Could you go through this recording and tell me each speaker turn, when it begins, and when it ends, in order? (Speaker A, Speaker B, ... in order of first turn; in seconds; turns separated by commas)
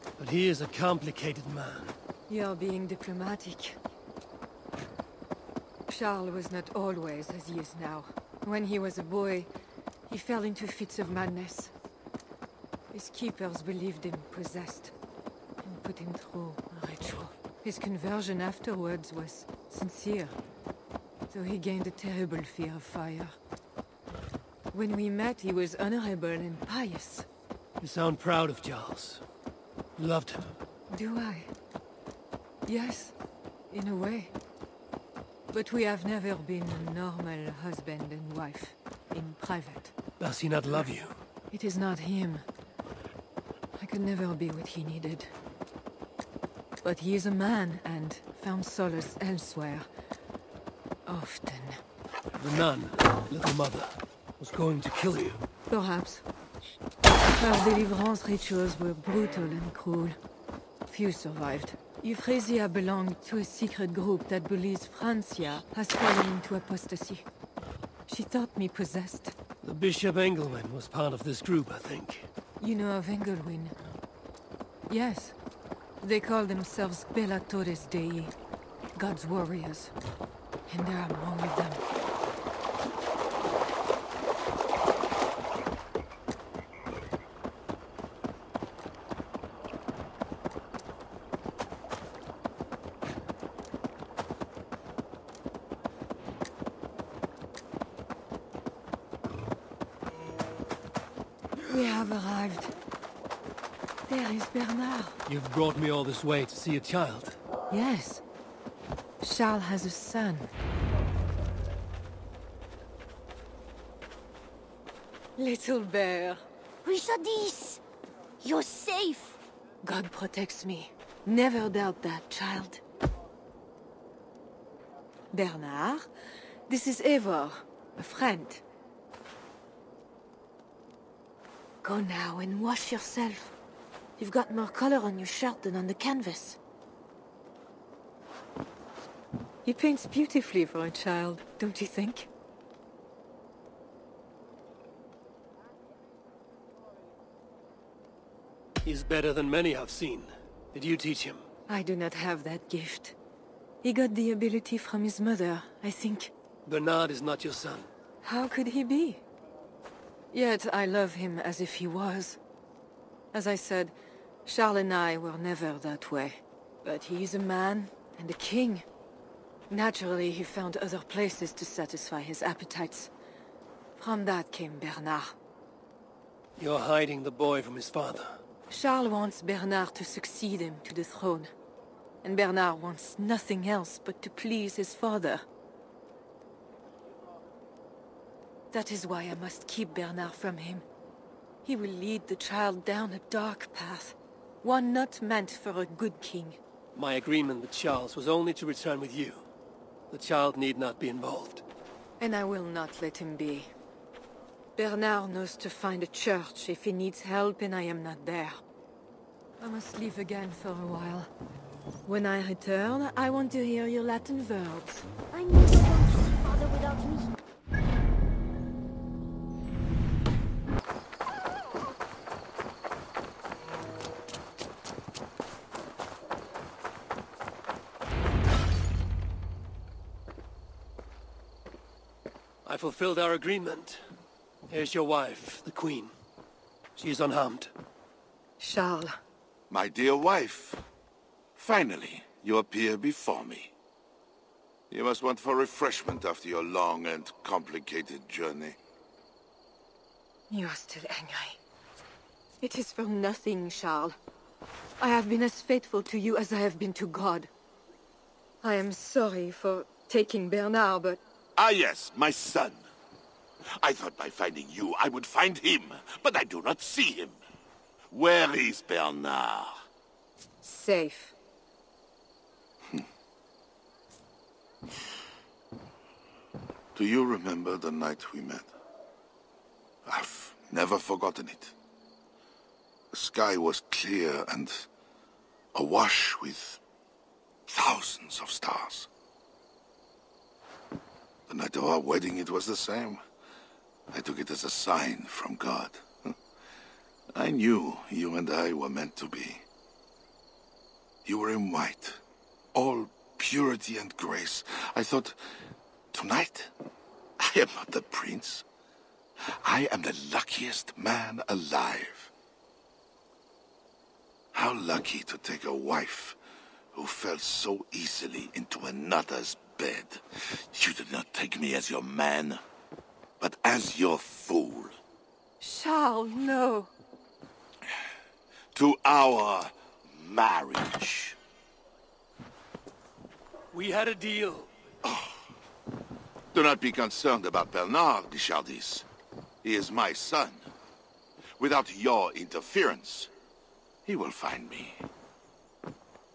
Speaker A: 0.2-1.9, Speaker B: 2.3-3.8, Speaker B: 5.9-9.5, Speaker B: 10.1-11.7, Speaker B: 12.9-14.9, Speaker B: 15.6-20.4, Speaker B: 21.3-23.3, Speaker B: 24.7-27.3, Speaker A: 27.8-29.2, Speaker A: 30.0-30.4, Speaker B: 30.9-31.5, Speaker B: 32.6-33.1, Speaker B: 33.7-34.3, Speaker B: 35.5-39.9, Speaker A: 40.2-41.1, Speaker B: 41.5-42.5, Speaker B: 43.8-45.3, Speaker B: 46.8-49.9, Speaker B: 51.1-51.8, Speaker A: 52.4-55.4, Speaker B: 55.7-56.2, Speaker B: 57.3-60.2, Speaker B: 60.9-67.2, Speaker B: 68.1-69.3, Speaker A: 69.6-72.3, Speaker B: 72.6-73.8, Speaker B: 74.9-75.3, Speaker B: 76.0-78.3, Speaker B: 78.9-79.9, Speaker B: 80.7-81.8, Speaker B: 101.6-102.7, Speaker B: 104.1-105.2, Speaker A: 105.3-107.4, Speaker B: 107.7-108.2, Speaker B: 109.2-110.5, Speaker B: 115.3-116.4, Speaker C: 116.8-117.8, Speaker C: 118.4-119.4, Speaker B: 119.8-122.8, Speaker B: 125.3-126.1, Speaker B: 126.7-128.6, Speaker B: 131.8-133.5, Speaker B: 134.2-136.6, Speaker B: 139.6-142.3, Speaker A: 148.8-151.4, Speaker B: 151.7-153.2, Speaker B: 153.8-156.3, Speaker A: 156.7-157.9, Speaker B: 158.2-159.2, Speaker B: 160.3-162.4, Speaker B: 163.3-168.8, Speaker B: 169.7-173.1, Speaker B: 174.0-175.3, Speaker A: 176.6-178.4, Speaker B: 178.7-181.5, Speaker B: 182.2-185.4, Speaker B: 188.7-190.8, Speaker B: 191.6-196.6, Speaker A: 196.9-199.4, Speaker A: 200.1-201.6, Speaker B: 202.2-203.7, Speaker B: 204.8-208.6, Speaker B: 209.6-211.3, Speaker B: 212.0-215.1, Speaker C: 215.3-217.3, Speaker A: 232.6-234.0, Speaker A: 234.7-236.1, Speaker A: 236.9-237.7, Speaker B: 238.6-239.1, Speaker D: 239.7-240.8, Speaker D: 241.6-243.7, Speaker D: 244.9-248.8, Speaker B: 250.5-251.6, Speaker B: 252.6-254.2, Speaker B: 255.0-257.5, Speaker B: 258.6-261.2, Speaker D: 261.6-262.8, Speaker D: 263.8-267.4, Speaker D: 268.1-269.8, Speaker B: 270.6-271.3, Speaker D: 276.9-278.7, Speaker D: 280.1-281.7, Speaker D: 283.1-284.9, Speaker D: 285.7-286.8, Speaker D: 287.7-289.1, Speaker D: 291.5-293.2, Speaker D: 294.1-296.0, Speaker D: 297.3-299.6, Speaker D: 301.2-302.2, Speaker D: 302.7-305.4, Speaker D: 306.1-306.7, Speaker D: 307.4-308.6, Speaker D: 309.5-312.3, Speaker D: 314.5-316.4, Speaker D: 316.9-322.6, Speaker D: 323.4-324.9, Speaker B: 325.6-326.9, Speaker D: 328.7-331.4, Speaker A: 333.7-334.7, Speaker D: 335.0-335.4, Speaker D: 336.5-339.1, Speaker D: 339.6-340.6, Speaker D: 341.6-343.3, Speaker D: 344.1-345.1